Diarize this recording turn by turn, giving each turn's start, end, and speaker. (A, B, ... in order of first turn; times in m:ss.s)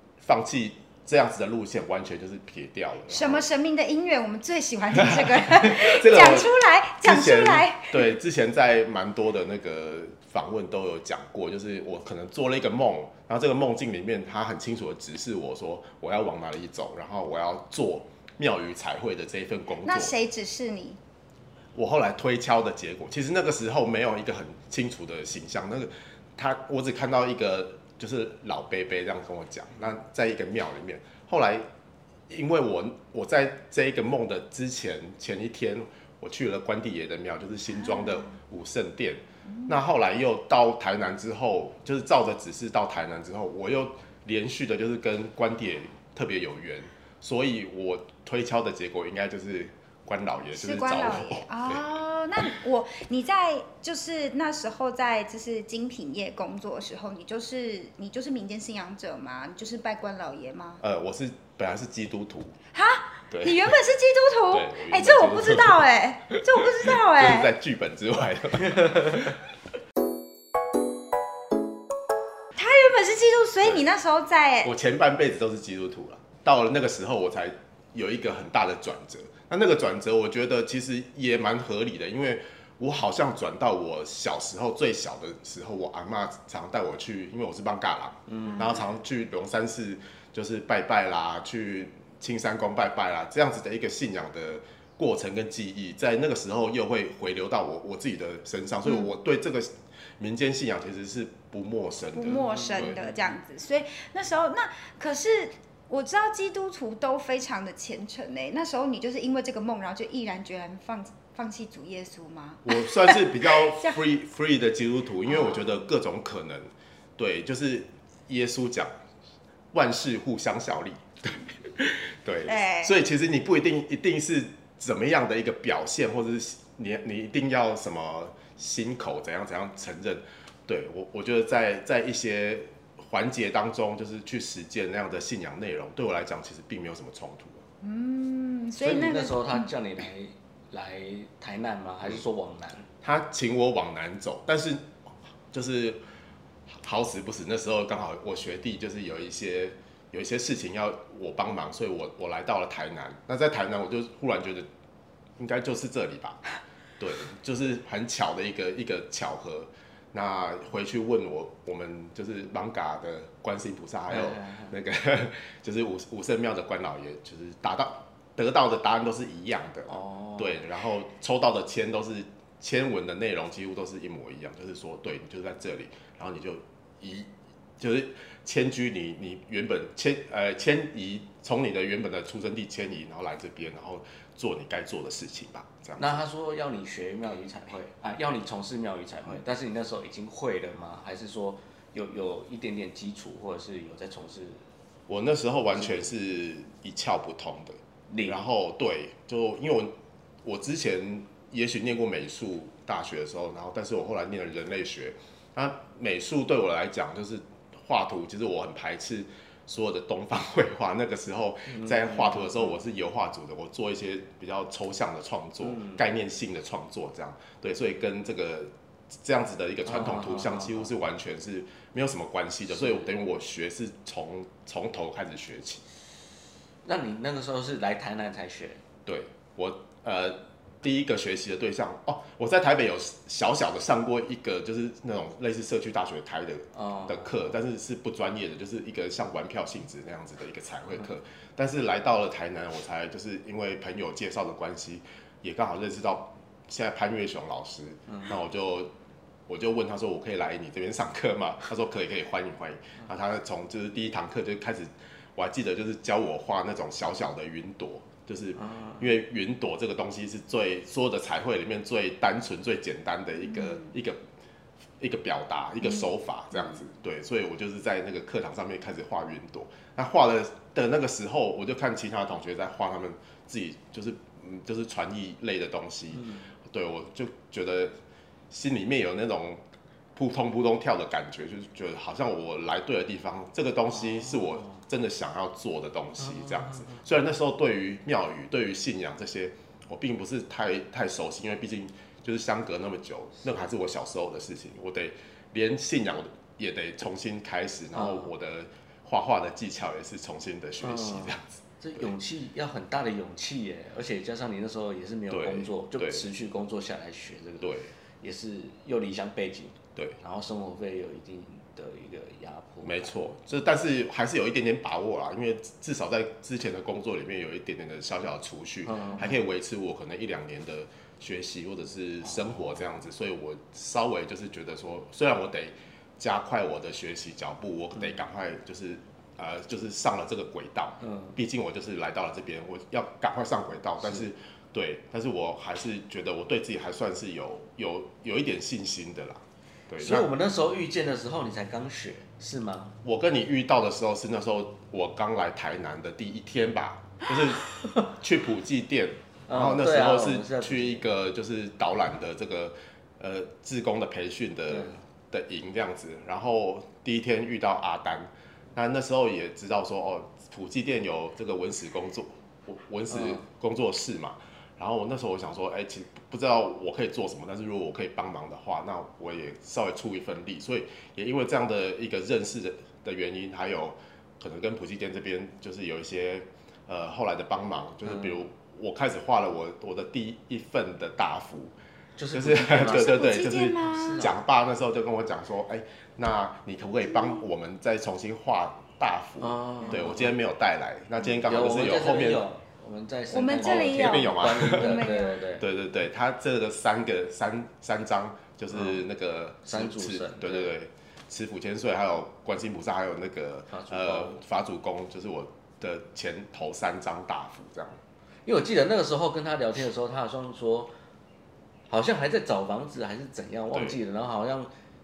0:00.2-0:03.5 A
0:03.1-0:08.2 B
0:04.9-0:20.1 A
0:19.8-0:21.0 B
0:21.8-0:31.7 A
0:32.3-0:51.8 A
0:39.5-0:39.8 B
0:50.5-1:00.8 B
1:00.8-1:02.6 A
1:02.7-1:07.5 B
1:03.3-1:03.7 A
1:04.5-1:09.4 A
1:12.6-1:14.7 B
1:14.6-1:43.0 A
1:28.3-1:28.7 C
1:28.5-1:28.8 B
1:42.1-1:54.0 B
1:42.4-1:43.1 C
1:52.6-1:58.9 A
1:55.3-1:55.8 B
1:59.7-2:17.6 A
2:02.4-2:03.0 B
2:17.8-2:19.7 B
2:18.8-2:22.9 C
2:23.0-2:26.0 A
2:26.7-2:34.7 A
2:35.4-2:36.4 A
2:37.0-3:06.2 A
2:44.1-2:44.7 C
2:49.9-2:50.6 C
3:06.0-3:14.7 C
3:15.1-3:45.8 A
3:18.1-3:18.4 C
3:31.7-3:32.7 C
3:35.6-3:36.0 C
3:39.9-3:40.9 C
3:46.8-3:48.8 C
3:49.1-4:08.9 A
3:56.7-3:57.5 C
4:09.5-4:24.2 A
4:18.6-4:19.1 C
4:23.4-4:23.9 B
4:25.0-4:37.9 A
4:25.8-4:26.1 B
4:36.1-4:36.5 C
4:38.5-4:39.6 A
4:40.1-5:02.1 A
4:43.9-4:44.8 C
4:46.2-4:47.0 C
4:57.9-4:58.3 C
5:00.8-5:13.1 C
5:05.3-5:06.3 A
5:07.6-5:07.9 A
5:12.8-5:40.3 A
5:18.9-5:19.3 C
5:31.0-5:31.4 C
5:40.0-5:43.0 C
5:43.0-6:21.7 A
5:49.5-5:51.0 C
5:54.7-5:55.0 C
6:03.1-6:03.4 C
6:18.1-6:18.4 C
6:22.2-6:24.4 C
6:22.3-6:32.4 A
6:22.7-6:24.3 B
6:27.1-6:27.4 B
6:29.4-6:30.4 C
6:29.8-6:30.1 B
6:31.4-6:35.7 C
6:33.3-6:35.4 B
6:33.6-6:48.0 A
6:38.7-6:39.0 C
6:39.7-6:40.7 C
6:43.7-6:44.4 C
6:48.4-6:50.9 C
6:51.9-6:54.7 C
6:53.7-6:54.0 A